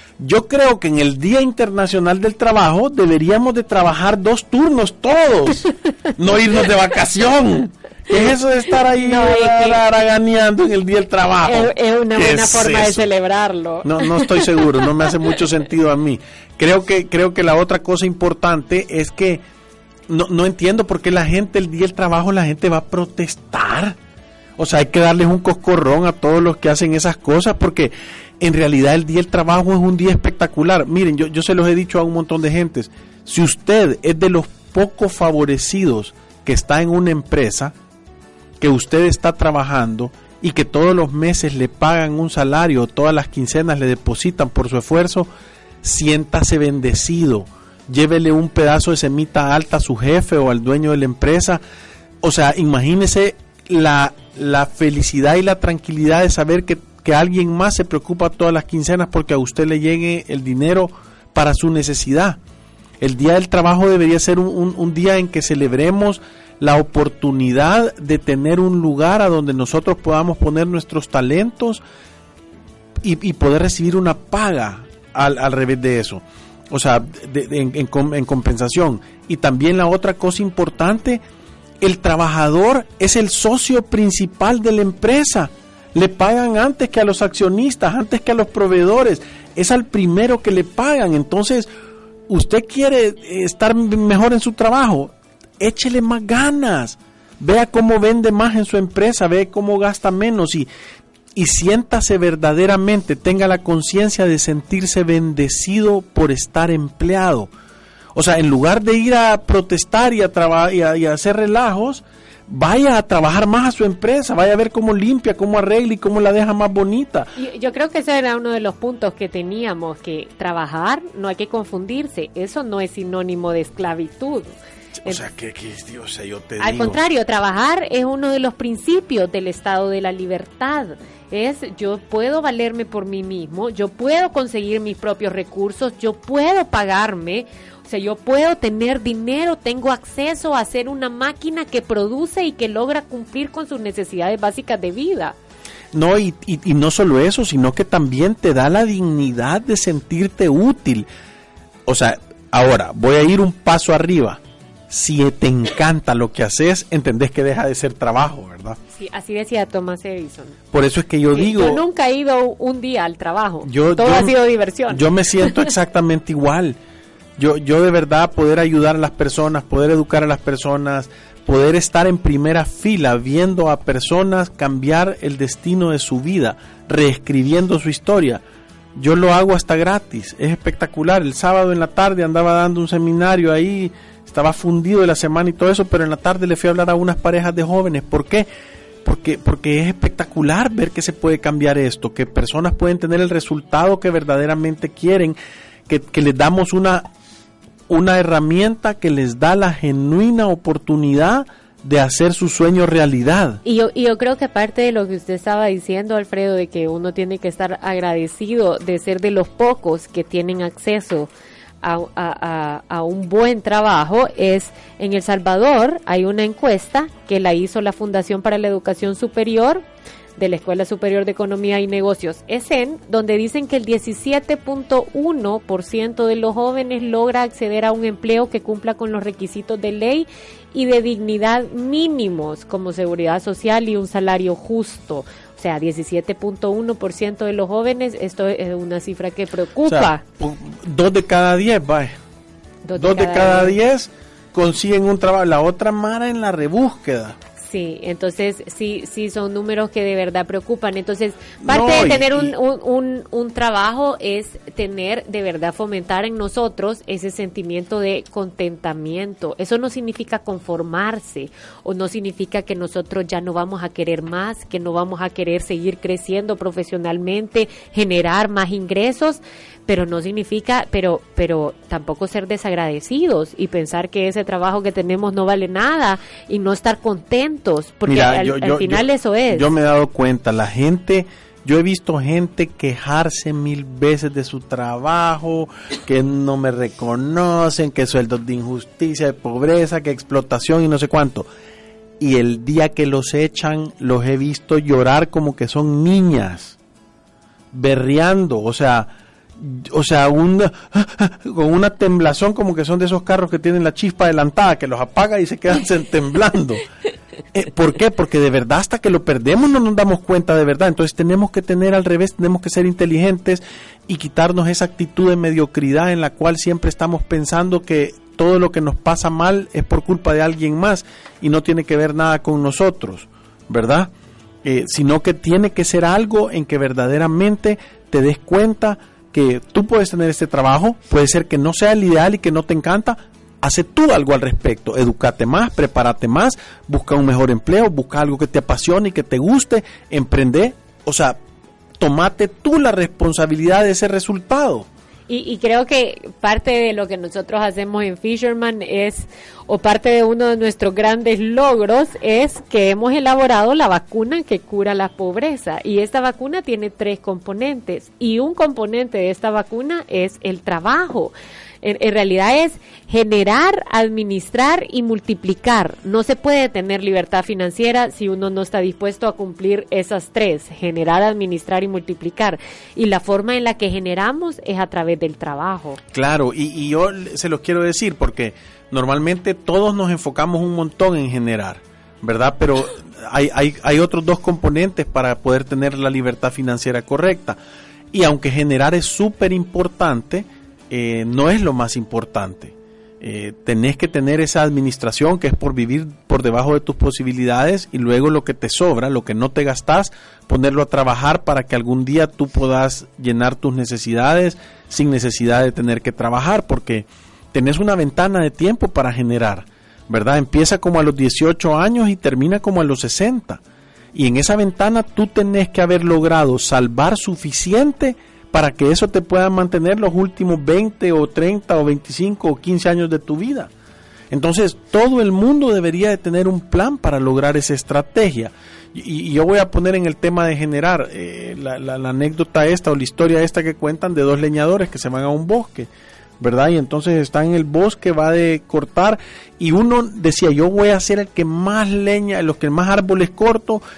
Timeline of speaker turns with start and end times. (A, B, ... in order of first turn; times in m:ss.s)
0:00.2-0:13.0 A
0:08.9-0:09.8 B
0:11.4-0:14.8 B
0:13.8-0:19.4 A
0:20.1-0:24.0 A
0:24.6-0:37.7 A
0:38.6-0:45.3 A
0:45.8-0:51.6 A
0:52.2-1:02.4 A
1:03.0-1:11.8 A
1:13.0-1:21.2 A
1:21.8-1:31.7 A
1:32.3-1:40.7 A
1:41.4-1:47.5 A
1:48.1-1:57.3 A
1:57.4-2:04.5 B
2:05.0-2:07.0 A
2:06.6-2:25.4 B
2:25.9-2:31.1 A
2:31.9-2:38.8 A
2:38.9-2:40.6 B
2:40.7-2:41.8 A
2:41.3-2:45.7 B
2:43.6-2:44.4 A
2:44.9-2:46.8 A
2:47.4-2:58.4 A
2:58.9-3:08.5 A
3:09.0-3:15.4 A
3:15.9-3:17.0 A
3:17.9-3:23.6 A
3:23.6-3:31.3 B
3:31.8-3:39.8 B
3:40.4-4:00.2 B
3:59.9-4:02.1 A
4:02.8-4:03.8 B
4:03.0-4:07.4 A
4:07.6-4:39.7 B
4:11.6-4:12.5 A
4:38.1-4:51.5 A
4:52.2-4:56.8 A
4:57.7-5:06.8 A
5:07.5-5:24.1 A
5:24.6-5:41.4 A
5:42.0-5:44.9 A
5:45.3-6:16.0 B
6:16.1-6:27.6 A
6:28.1-6:53.6 A
6:54.1-7:03.7 A
7:04.3-7:15.9 A
7:16.4-7:23.8 A